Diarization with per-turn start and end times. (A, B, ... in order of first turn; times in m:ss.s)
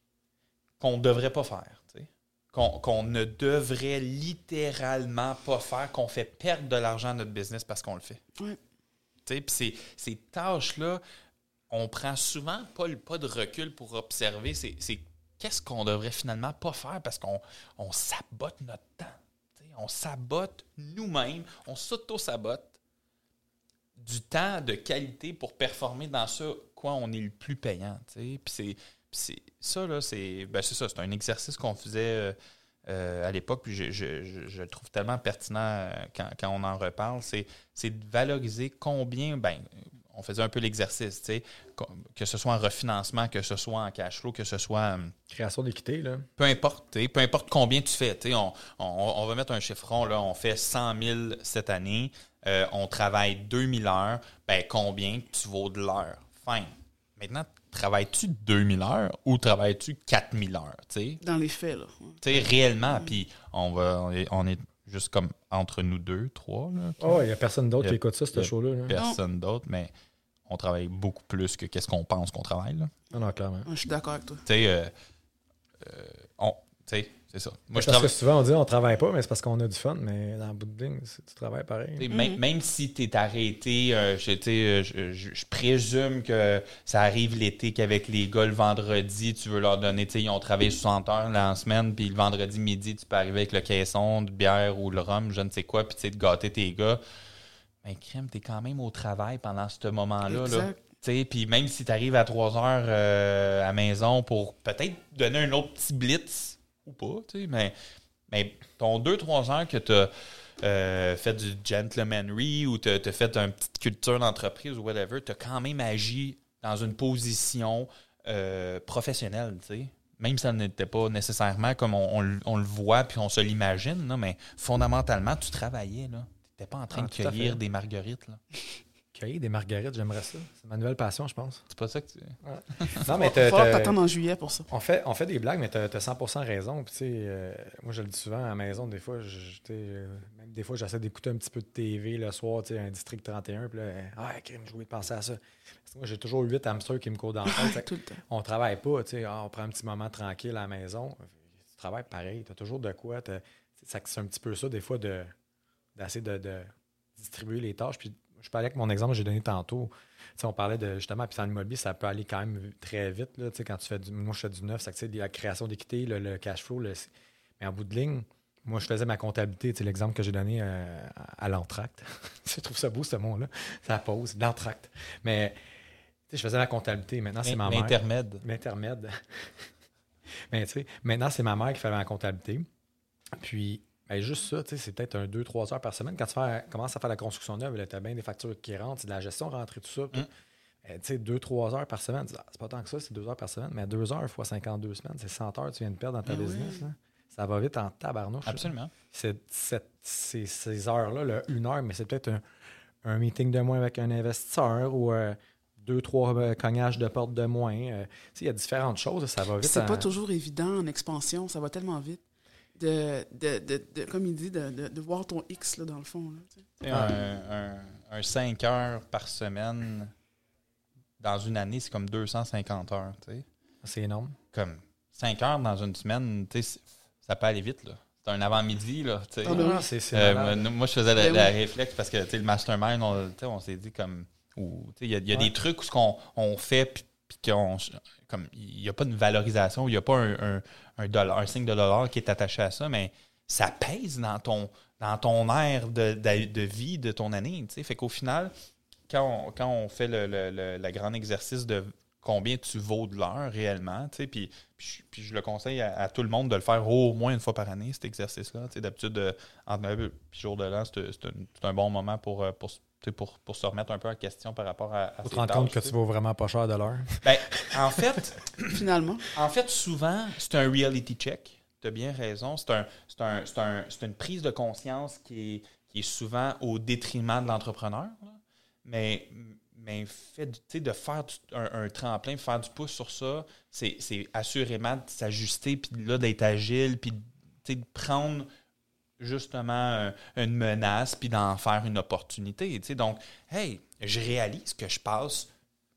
0:00.8-0:08.2 A
0:09.3-0:11.0 A
0:11.7-0:22.8 A
0:24.0-0:32.4 A
0:32.9-0:45.1 A
0:45.3-0:46.3 B
0:46.4-1:01.2 A
1:01.2-1:02.2 C
1:02.2-1:07.2 A
1:07.0-1:09.0 B
1:07.8-1:09.9 A
1:10.5-1:12.9 A
1:13.1-1:13.7 B
1:13.7-1:14.4 C
1:14.4-1:14.9 A
1:15.8-1:18.1 A
1:17.7-1:22.0 B
1:22.0-1:37.0 A
1:22.1-1:22.4 C
1:37.8-1:47.7 A
1:40.3-1:40.8 C
1:48.3-2:08.4 A
2:06.9-2:07.6 B
2:09.1-2:11.6 B
2:11.7-2:13.0 A
2:12.4-2:14.0 B
2:13.1-2:14.7 C
2:14.7-2:35.3 B
2:27.5-2:28.2 C
2:36.0-2:55.6 B
2:56.3-2:59.7 B
2:57.4-2:58.4 A
3:00.5-3:02.7 B
3:03.3-3:10.3 B
3:10.8-3:22.4 B
3:16.3-3:16.8 C
3:18.4-3:18.9 A
3:23.0-3:30.1 B
3:29.6-3:32.2 C
3:32.7-3:36.6 C
3:36.8-3:40.1 A
3:36.9-3:37.1 B
3:41.2-3:43.4 A
3:43.8-3:44.4 B
3:44.5-4:08.5 A
3:49.4-3:49.8 C
3:49.4-3:50.7 B
3:51.2-3:51.5 C
4:09.1-4:26.0 A
4:25.2-4:28.0 B
4:27.2-4:28.8 A
4:28.7-4:29.3 C
4:29.3-4:48.5 A
4:49.2-4:55.5 A